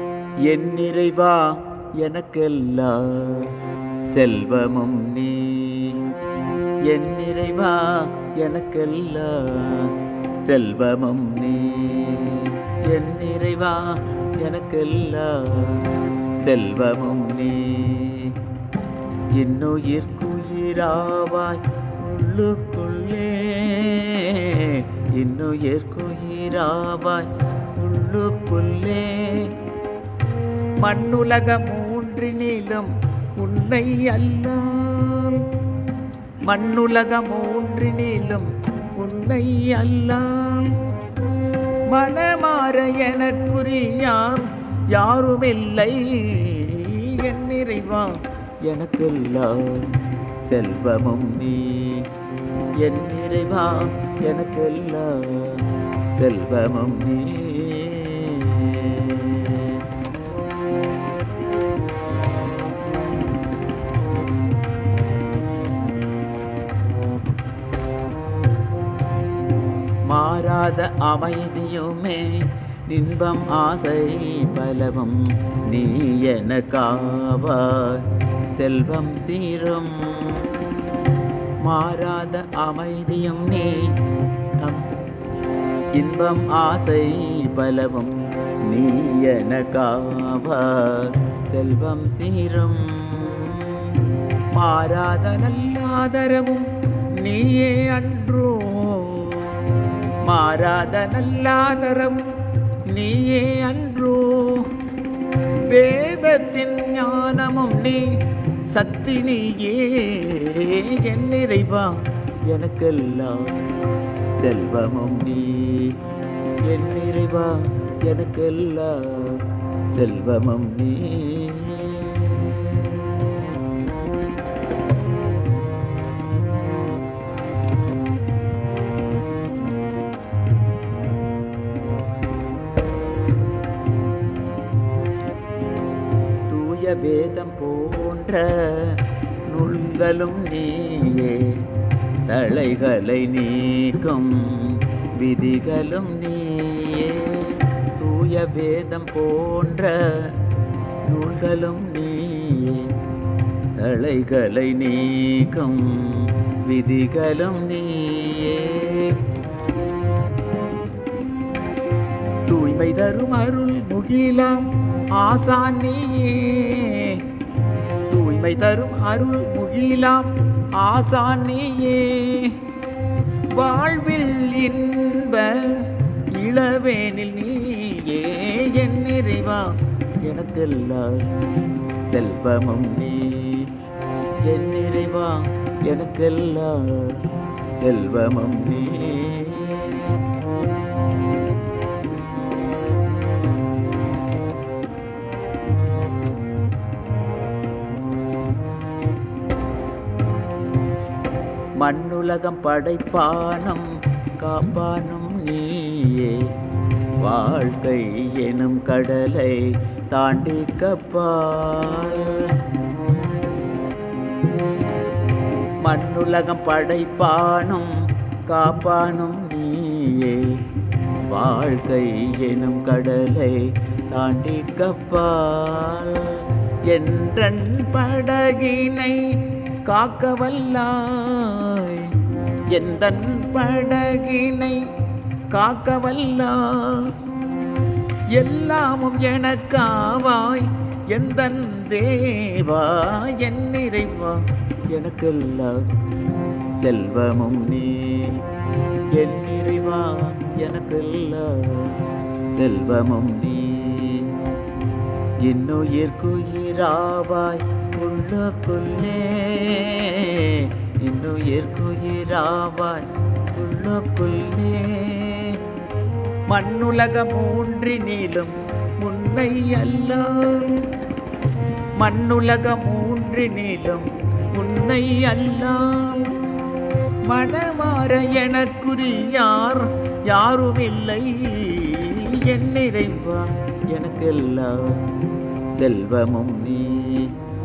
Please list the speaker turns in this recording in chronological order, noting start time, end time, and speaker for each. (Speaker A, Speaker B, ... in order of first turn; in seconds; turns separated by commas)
Speaker A: 0.4-6.1, Speaker A: 6.8-18.4, Speaker A: 19.3-29.6, Speaker A: 30.8-35.5, Speaker A: 36.4-40.8, Speaker A: 41.9-52.1, Speaker A: 52.8-59.8, Speaker A: 70.0-80.5, Speaker A: 81.6-84.0, Speaker A: 84.6-84.9, Speaker A: 85.9-102.3, Speaker A: 102.9-104.7, Speaker A: 105.7-113.6, Speaker A: 114.3-116.0, Speaker A: 116.6-123.6, Speaker A: 136.5-141.7, Speaker A: 142.2-150.4, Speaker A: 151.0-152.9, Speaker A: 153.7-159.2, Speaker A: 162.4-167.2, Speaker A: 168.1-172.7, Speaker A: 173.5-181.4, Speaker A: 182.0-183.8, Speaker A: 184.4-190.2, Speaker A: 201.8-206.5, Speaker A: 207.2-212.5, Speaker A: 215.8-217.9, Speaker A: 218.4-234.8, Speaker A: 235.5-237.2, Speaker A: 238.3-245.9, Speaker A: 246.8-248.4, Speaker A: 249.1-254.4, Speaker A: 255.4-265.6, Speaker A: 266.5-270.9, Speaker A: 272.0-276.4, Speaker A: 277.2-285.1, Speaker A: 285.7-287.4